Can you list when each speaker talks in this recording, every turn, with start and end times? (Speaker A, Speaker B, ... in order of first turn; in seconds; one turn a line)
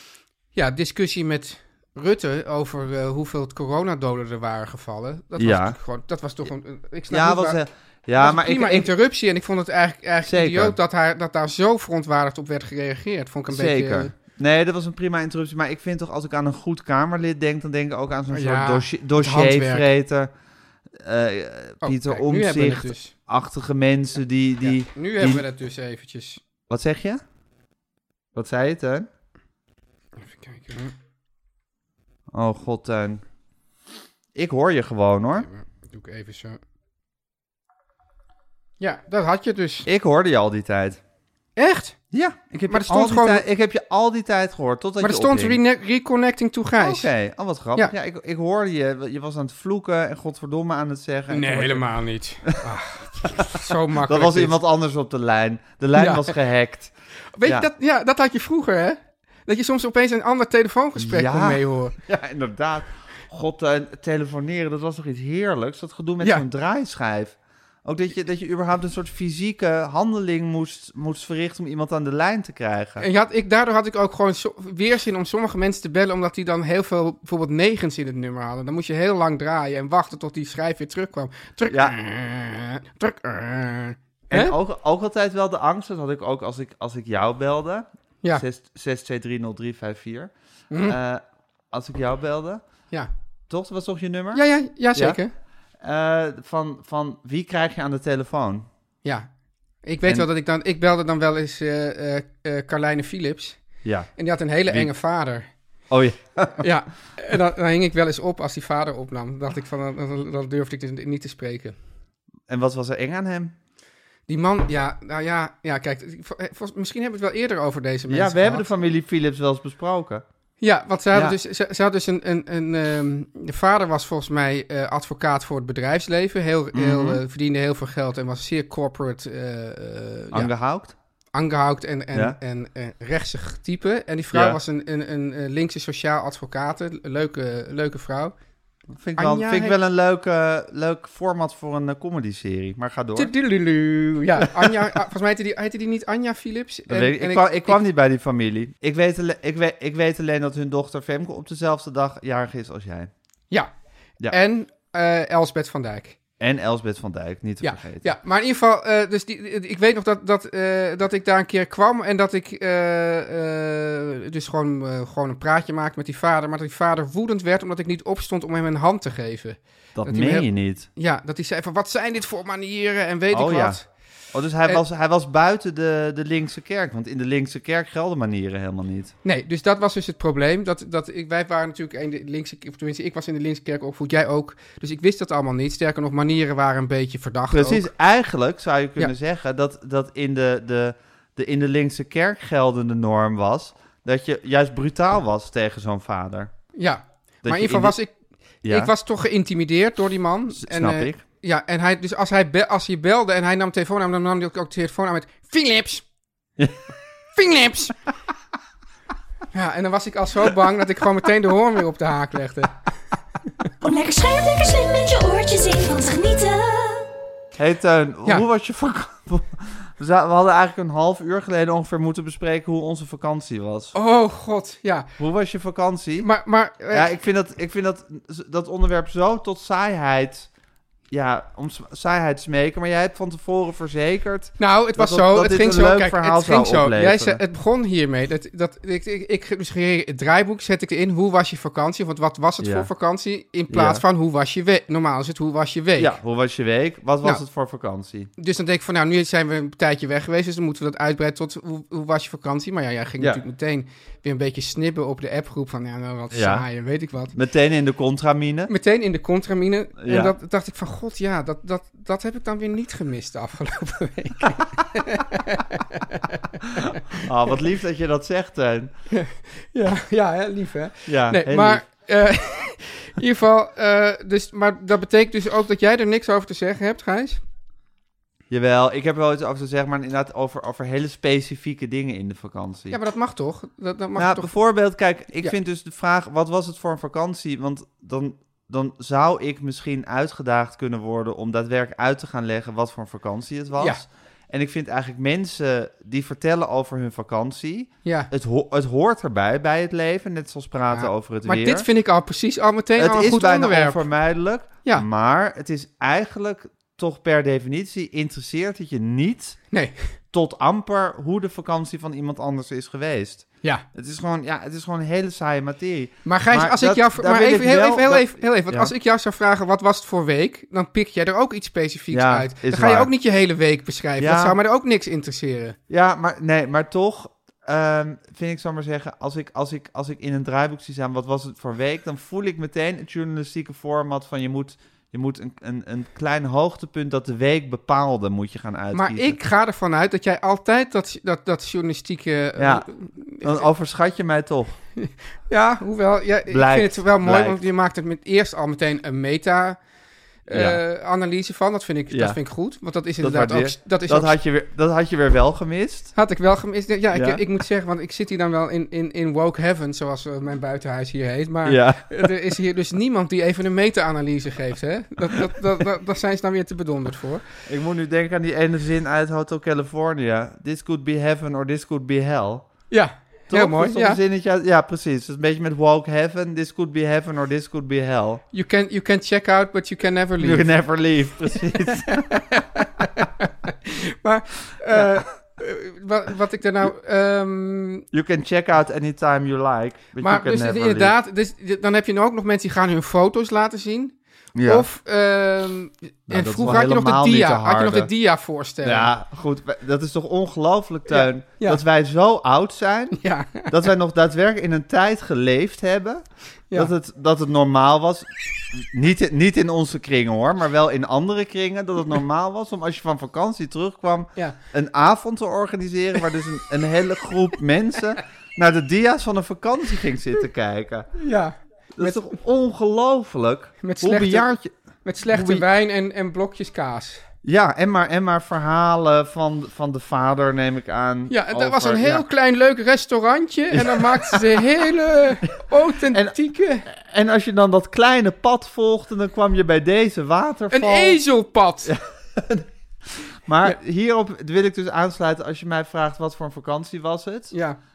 Speaker A: 0.5-7.6
Speaker B: 5.4-5.8
Speaker B: 7.1-8.9
Speaker A: 8.2-14.1
Speaker B: 10.2-10.8
Speaker B: 13.5-20.3
Speaker A: 18.3-19.9
Speaker B: 21.0-25.4
Speaker A: 21.8-23.1
Speaker A: 24.6-26.4
Speaker B: 26.7-27.2
Speaker B: 28.4-29.1
Speaker A: 30.2-30.9
Speaker B: 32.3-33.2
Speaker B: 34.4-35.5
Speaker A: 35.4-36.6
Speaker A: 38.8-39.9
Speaker B: 39.9-41.0
Speaker A: 41.6-42.0
Speaker B: 42.1-45.6
Speaker A: 42.7-43.4
Speaker A: 45.0-47.1
Speaker B: 46.8-51.9
Speaker A: 51.3-54.5
Speaker B: 53.2-56.9
Speaker A: 56.0-56.4
Speaker A: 57.4-62.0
Speaker B: 61.0-73.1
Speaker A: 73.0-84.5
Speaker B: 81.7-82.0
Speaker B: 84.3-90.3
Speaker A: 90.7-91.0
Speaker B: 90.8-92.6
Speaker B: 93.5-95.2
Speaker A: 94.3-95.3
Speaker B: 95.8-98.7
Speaker A: 99.0-99.3
Speaker A: 99.8-103.6
Speaker B: 103.8-104.1
Speaker A: 104.2-105.5
Speaker B: 105.9-106.7
Speaker A: 106.6-111.8
Speaker B: 112.5-113.5
Speaker A: 114.3-118.7
Speaker B: 118.1-120.2
Speaker A: 120.6-130.5
Speaker B: 126.7-127.2
Speaker B: 130.3-130.9
Speaker A: 131.3-138.3
Speaker B: 134.3-134.6
Speaker B: 139.0-143.3
Speaker A: 139.2-139.8
Speaker A: 143.2-147.8
Speaker B: 144.4-144.7
Speaker B: 146.9-153.1
Speaker A: 154.3-156.2
Speaker B: 156.4-158.2
Speaker A: 157.6-173.8
Speaker B: 170.0-170.9
Speaker B: 173.3-179.1
Speaker A: 179.2-187.9
Speaker B: 187.5-196.5
Speaker A: 196.8-198.1
Speaker B: 197.4-198.0
Speaker B: 198.6-198.9
Speaker A: 198.7-206.1
Speaker B: 200.5-201.2
Speaker A: 207.4-208.0
Speaker A: 209.5-212.7
Speaker C: 213.8-217.1
Speaker B: 217.6-223.9
Speaker A: 223.9-225.1
Speaker B: 225.2-226.3
Speaker A: 226.2-227.1
Speaker B: 226.9-230.5
Speaker B: 231.1-237.4
Speaker A: 234.6-246.2
Speaker B: 242.6-242.9
Speaker B: 243.7-244.0
Speaker B: 246.0-248.3
Speaker A: 248.4-257.3
Speaker B: 256.3-256.7
Speaker B: 257.3-258.7
Speaker A: 258.7-267.2
Speaker B: 260.0-260.4
Speaker B: 267.1-268.9
Speaker A: 269.1-277.4
Speaker B: 271.1-271.8
Speaker B: 278.5-283.0
Speaker A: 282.9-284.5
Speaker B: 284.2-301.9
Speaker A: 293.8-294.0
Speaker A: 298.1-298.3
Speaker A: 300.9-304.0
Speaker B: 303.0-309.6
Speaker A: 309.7-310.1
Speaker B: 310.3-318.9
Speaker A: 316.2-325.8
Speaker B: 322.1-323.1
Speaker B: 324.2-324.6
Speaker B: 325.9-339.4
Speaker A: 338.9-343.7
Speaker B: 342.6-342.9
Speaker B: 343.4-344.8
Speaker A: 345.0-349.8
Speaker B: 346.5-347.6
Speaker A: 350.5-354.4
Speaker B: 350.5-350.8
Speaker B: 352.1-352.4
Speaker B: 353.2-356.1
Speaker A: 356.1-367.4
Speaker B: 357.1-357.4
Speaker B: 361.6-362.3
Speaker B: 367.7-372.7
Speaker A: 372.9-374.2
Speaker B: 373.5-378.4
Speaker A: 378.5-380.7
Speaker B: 380.4-382.4
Speaker A: 382.1-388.1
Speaker B: 384.9-385.2
Speaker B: 388.1-391.1
Speaker A: 390.2-399.1
Speaker B: 394.6-394.9
Speaker B: 396.3-398.1
Speaker B: 398.8-421.2
Speaker A: 401.1-401.8
Speaker A: 403.1-403.9
Speaker A: 421.2-422.4
Speaker B: 422.0-424.7
Speaker A: 423.8-427.2
Speaker B: 425.3-425.6
Speaker B: 427.4-432.2
Speaker A: 431.3-436.9
Speaker B: 433.7-434.7
Speaker B: 436.1-441.2
Speaker A: 440.7-441.9
Speaker B: 441.8-447.5
Speaker A: 447.5-447.8